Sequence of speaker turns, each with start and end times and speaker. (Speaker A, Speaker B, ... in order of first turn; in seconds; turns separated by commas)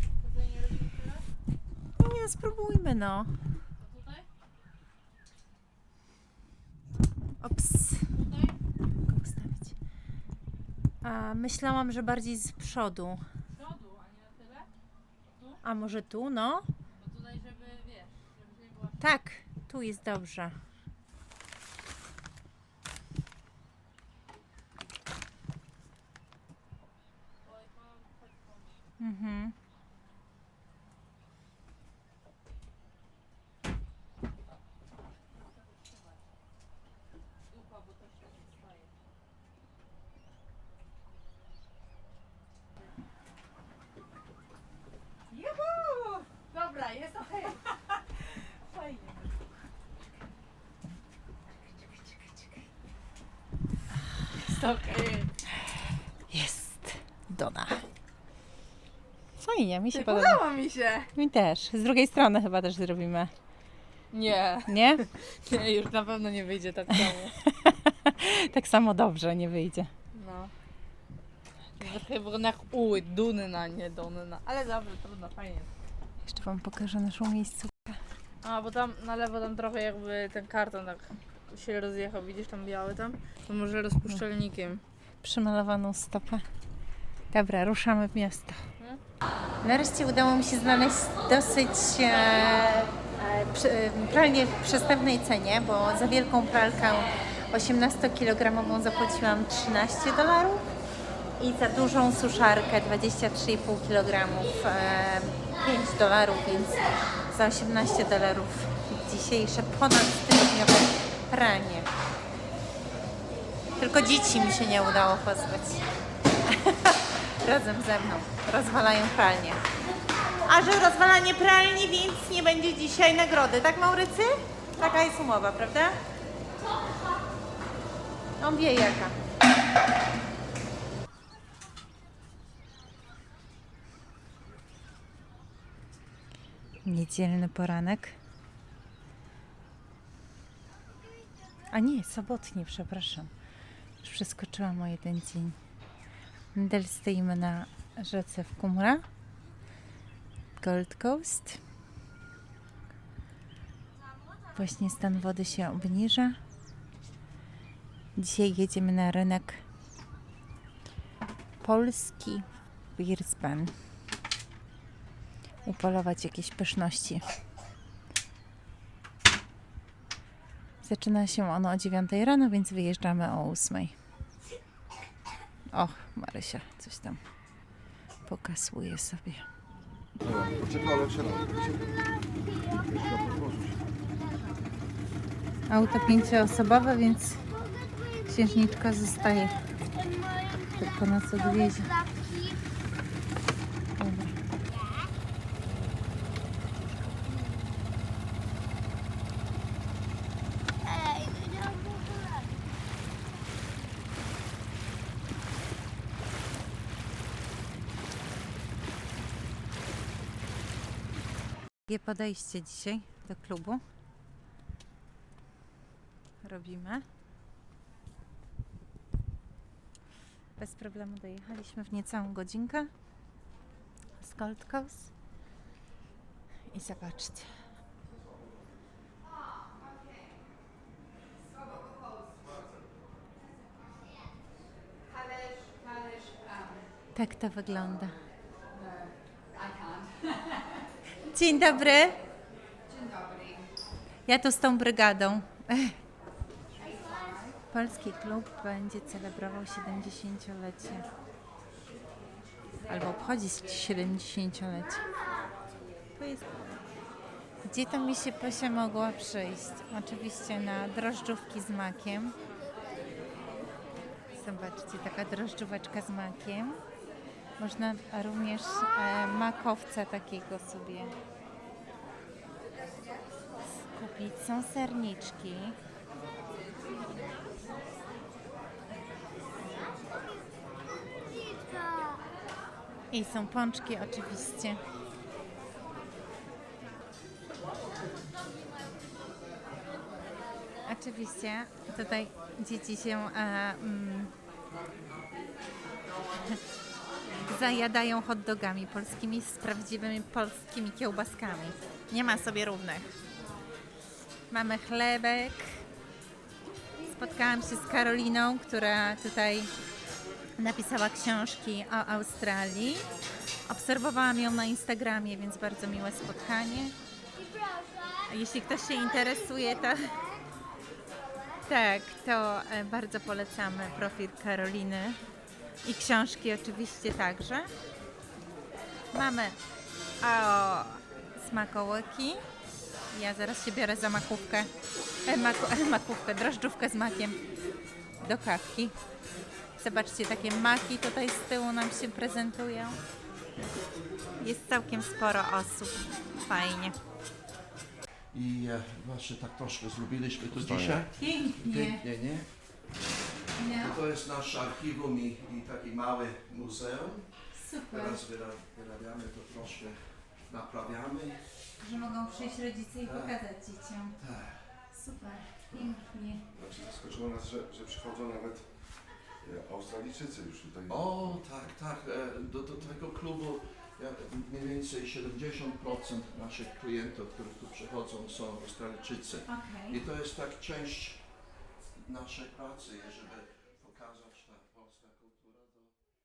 Speaker A: 0.2-1.2, Speaker B: 2.0-3.4, Speaker A: 3.8-4.3, Speaker B: 7.4-8.2, Speaker A: 8.1-8.6, Speaker B: 9.0-9.8, Speaker B: 11.0-13.2, Speaker A: 13.5-14.7, Speaker A: 15.3-15.6, Speaker B: 15.6-16.7, Speaker A: 16.9-19.0, Speaker B: 19.0-20.6, Speaker A: 27.4-28.8, Speaker B: 29.0-29.6, Speaker A: 35.4-36.0, Speaker A: 37.5-38.9, Speaker B: 45.3-47.5, Speaker A: 46.5-47.5, Speaker B: 48.1-49.3, Speaker B: 51.7-52.6, Speaker A: 54.4-55.3, Speaker B: 56.3-57.9, Speaker B: 59.4-60.5, Speaker A: 59.9-61.1, Speaker B: 61.1-63.3, Speaker A: 64.1-67.4, Speaker B: 64.7-65.1, Speaker B: 67.1-69.9, Speaker A: 70.1-70.5, Speaker A: 71.8-75.7, Speaker B: 76.2-78.0, Speaker A: 78.4-84.8, Speaker B: 85.2-86.5, Speaker B: 87.3-88.7, Speaker B: 89.6-100.7, Speaker B: 101.4-111.9, Speaker C: 113.7-114.6, Speaker B: 113.8-115.8, Speaker B: 116.4-119.6, Speaker B: 120.5-126.0, Speaker B: 128.4-129.2, Speaker B: 136.8-138.2, Speaker B: 141.7-143.3, Speaker B: 144.0-145.6, Speaker B: 146.6-149.1, Speaker B: 150.6-151.6, Speaker B: 154.6-156.4, Speaker B: 158.2-159.6, Speaker B: 161.6-163.8, Speaker B: 165.7-167.2, Speaker B: 170.8-173.9, Speaker B: 175.7-177.2, Speaker B: 178.2-179.5, Speaker D: 180.2-181.9, Speaker C: 180.5-184.7, Speaker D: 182.7-183.8, Speaker B: 185.7-187.4, Speaker C: 185.8-192.7, Speaker B: 188.3-189.6, Speaker B: 190.8-191.9, Speaker B: 194.0-194.4, Speaker C: 194.7-195.1, Speaker D: 195.5-197.3, Speaker C: 197.3-197.8, Speaker C: 200.8-202.6, Speaker B: 211.9-213.8, Speaker B: 216.4-217.1, Speaker B: 220.6-222.9, Speaker B: 224.2-225.1, Speaker B: 226.7-227.6, Speaker B: 237.1-238.2, Speaker B: 241.3-242.2, Speaker B: 244.3-246.0, Speaker B: 247.7-251.1, Speaker B: 252.9-255.1, Speaker B: 256.2-256.4, Speaker B: 257.6-262.4, Speaker C: 262.3-264.3, Speaker B: 264.3-266.8, Speaker B: 267.6-271.1, Speaker B: 273.8-275.8, Speaker C: 277.0-277.3, Speaker C: 279.7-280.4, Speaker C: 281.0-282.2, Speaker B: 283.1-284.8, Speaker B: 290.9-294.3, Speaker B: 297.4-303.1, Speaker B: 304.5-305.8, Speaker B: 307.0-309.7, Speaker B: 310.6-313.1, Speaker B: 313.7-317.0, Speaker C: 317.3-320.5, Speaker B: 318.3-320.1, Speaker B: 321.7-325.2, Speaker B: 325.8-327.7, Speaker B: 329.1-329.6, Speaker B: 330.2-332.4, Speaker B: 333.1-334.7, Speaker B: 335.3-337.4, Speaker B: 338.2-338.9, Speaker B: 339.8-343.0, Speaker B: 344.4-347.0, Speaker E: 348.3-352.5, Speaker D: 350.5-351.1, Speaker B: 351.1-352.0, Speaker B: 353.6-354.0, Speaker E: 353.7-357.3, Speaker B: 357.5-358.2, Speaker E: 357.9-361.4, Speaker B: 361.8-364.2, Speaker E: 363.0-363.4, Speaker E: 364.2-364.7, Speaker B: 364.9-366.5, Speaker D: 366.5-371.6, Speaker E: 370.9-381.2, Speaker B: 379.5-380.0, Speaker E: 382.0-385.9